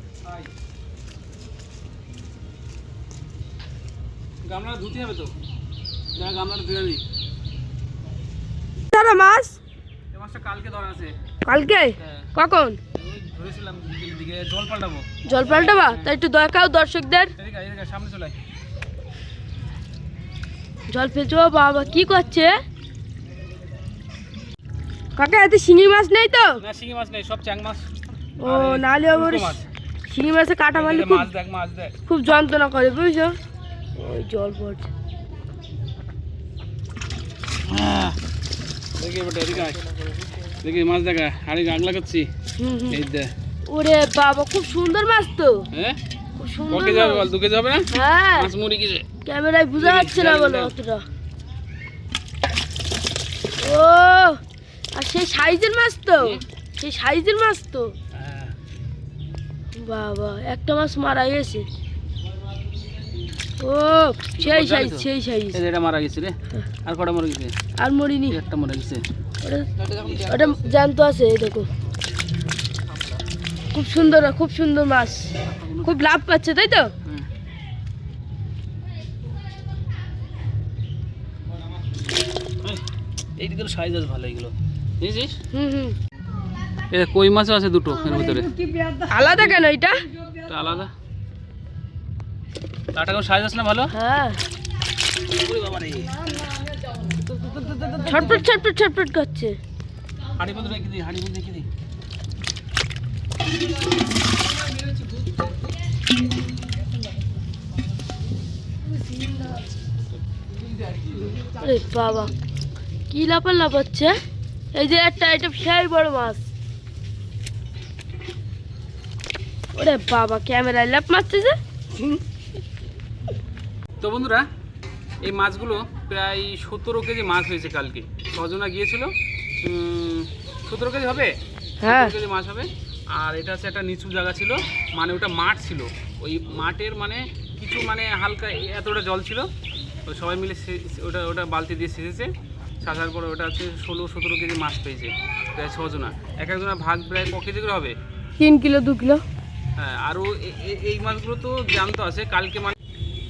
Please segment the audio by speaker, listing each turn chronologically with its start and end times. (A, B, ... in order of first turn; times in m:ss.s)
0:00.2-0:00.5 A
0:04.4-0:05.3 A
0:06.1-0:07.0 A
0:08.9-0:09.6 B
0:10.1-0:11.1 A
0:11.5-0:12.8 B
0:12.0-0:12.3 A
0:12.9-0:16.1 A
0:15.3-0:17.3 B
0:17.4-0:18.4 A
0:20.9-0:22.5 B
0:25.2-0:26.6 B
0:26.6-0:27.8 A
0:28.4-0:31.3 B
0:28.4-0:29.7 A
0:30.7-0:31.9 A
0:32.1-0:33.4 B
0:34.0-0:34.9 B
0:37.6-0:38.2 A
0:39.0-0:40.0 A
0:40.5-0:42.3 A
0:42.6-0:43.0 B
0:42.9-0:43.3 A
0:43.7-0:45.6 B
0:45.7-0:46.0 A
0:46.4-0:47.3 B
0:46.7-0:49.0 A
0:47.9-0:48.5 B
0:49.2-0:51.0 B
0:49.8-0:50.8 A
0:53.6-0:54.4 B
0:54.9-0:57.9 B
0:58.1-0:58.5 A
0:59.8-1:01.6 B
1:03.6-1:05.6 B
1:04.4-1:07.5 A
1:07.8-1:08.4 B
1:08.3-1:09.0 A
1:09.4-1:09.7 B
1:09.8-1:10.7 A
1:10.2-1:11.7 B
1:12.9-1:13.2 A
1:13.7-1:16.9 B
1:15.4-1:16.0 A
1:23.4-1:25.4 A
1:25.5-1:26.0 B
1:26.9-1:28.6 A
1:29.1-1:30.0 B
1:30.4-1:30.9 A
1:32.9-1:33.9 A
1:33.9-1:34.4 B
1:35.4-1:36.1 A
1:37.4-1:38.0 A
1:38.0-1:39.6 B
1:40.4-1:41.7 A
1:51.4-1:52.3 B
1:53.1-1:54.2 B
1:54.7-1:56.4 B
1:59.7-2:01.6 B
2:04.0-2:04.5 A
2:05.2-2:19.5 A
2:11.8-2:12.1 B
2:20.1-2:28.0 A
2:28.4-2:29.2 B
2:29.8-2:32.8 A